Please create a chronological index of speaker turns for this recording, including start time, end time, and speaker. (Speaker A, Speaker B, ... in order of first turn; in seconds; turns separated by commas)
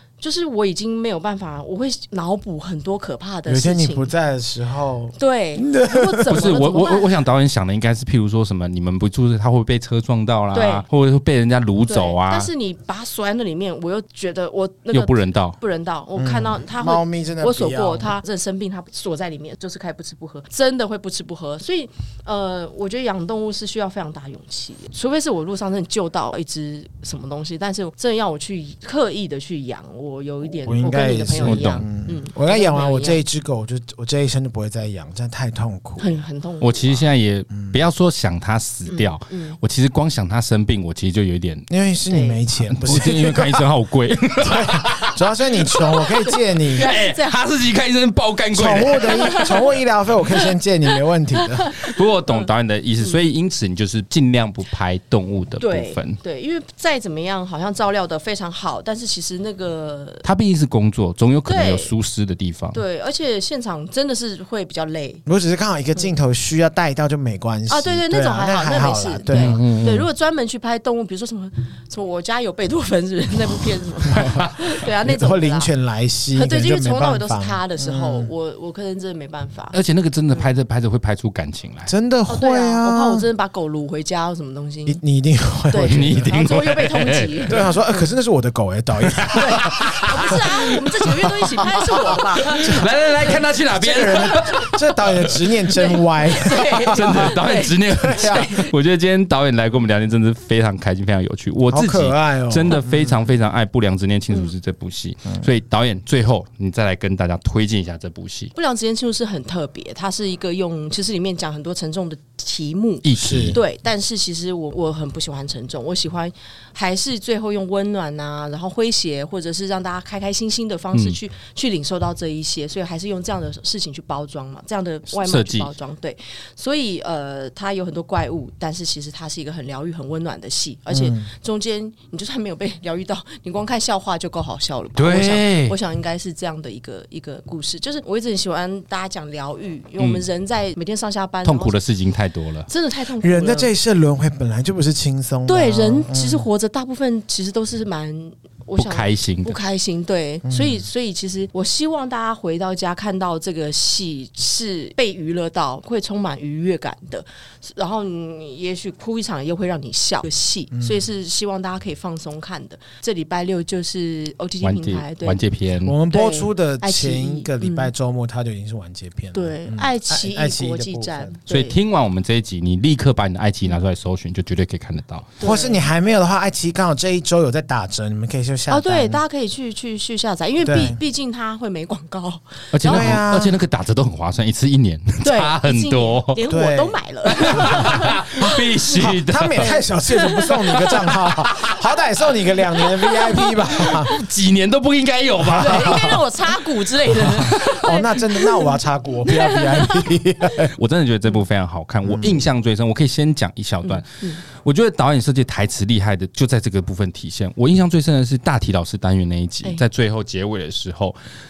Speaker A: 0.2-4.1, Speaker B: 3.5-6.5, Speaker A: 5.2-7.2, Speaker C: 6.3-12.5, Speaker A: 10.5-10.8, Speaker A: 11.9-33.2, Speaker C: 14.9-15.6, Speaker B: 16.2-18.1, Speaker B: 30.6-36.2, Speaker C: 31.4-31.9, Speaker A: 36.0-37.0, Speaker C: 36.6-41.7, Speaker A: 38.9-39.6, Speaker B: 41.7-43.6, Speaker A: 42.1-42.4, Speaker C: 42.7-45.2, Speaker B: 44.4-46.9, Speaker A: 46.1-47.4, Speaker C: 46.7-49.7, Speaker B: 48.5-51.7, Speaker A: 49.0-49.5, Speaker A: 51.5-52.5, Speaker C: 51.8-56.2, Speaker A: 55.6-60.2, Speaker C: 60.2-62.8, Speaker A: 61.5-61.9, Speaker A: 62.7-65.2, Speaker B: 65.3-69.9, Speaker A: 67.7-75.7, Speaker C: 69.3-70.0, Speaker C: 74.1-74.5, Speaker B: 74.1-74.4, Speaker B: 75.0-78.3, Speaker A: 76.3-79.8, Speaker C: 79.7-81.9, Speaker B: 81.9-83.2, Speaker A: 82.3-85.0, Speaker B: 84.9-86.3, Speaker A: 85.7-88.0, Speaker C: 85.8-87.6, Speaker B: 87.5-90.4, Speaker C: 89.0-90.7, Speaker A: 89.3-92.8, Speaker B: 91.4-92.0, Speaker C: 91.6-95.5, Speaker B: 93.7-97.3, Speaker A: 94.3-94.7, Speaker A: 95.7-98.7, Speaker C: 96.8-108.5, Speaker B: 98.0-98.5, Speaker B: 101.7-103.2, Speaker A: 108.5-141.8, Speaker C: 113.0-113.6, Speaker B: 113.2-113.6, Speaker C: 125.1-125.7, Speaker B: 130.9-131.3, Speaker C: 135.0-135.8, Speaker C: 140.0-140.3, Speaker C: 141.4-142.7, Speaker A: 142.7-143.7, Speaker B: 143.2-146.5, Speaker A: 145.5-165.4, Speaker C: 148.8-149.6, Speaker B: 150.4-150.8, Speaker B: 160.7-161.0, Speaker C: 164.6-165.9, Speaker B: 165.8-171.4, Speaker A: 166.1-167.9, Speaker A: 169.3-171.8, Speaker C: 171.5-175.3, Speaker A: 175.4-175.9, Speaker B: 175.4-179.2, Speaker A: 178.7-183.2, Speaker B: 180.6-181.0, Speaker C: 182.7-186.4, Speaker B: 182.8-183.6, Speaker A: 185.2-191.7, Speaker B: 186.5-194.1, Speaker C: 187.3-189.7, Speaker A: 192.8-193.8, Speaker C: 193.8-196.2, Speaker B: 195.4-196.2, Speaker A: 195.6-198.7, Speaker C: 197.2-197.9, Speaker B: 197.4-200.8, Speaker A: 199.3-200.1, Speaker C: 200.8-211.2, Speaker B: 202.0-202.4, Speaker A: 203.8-204.4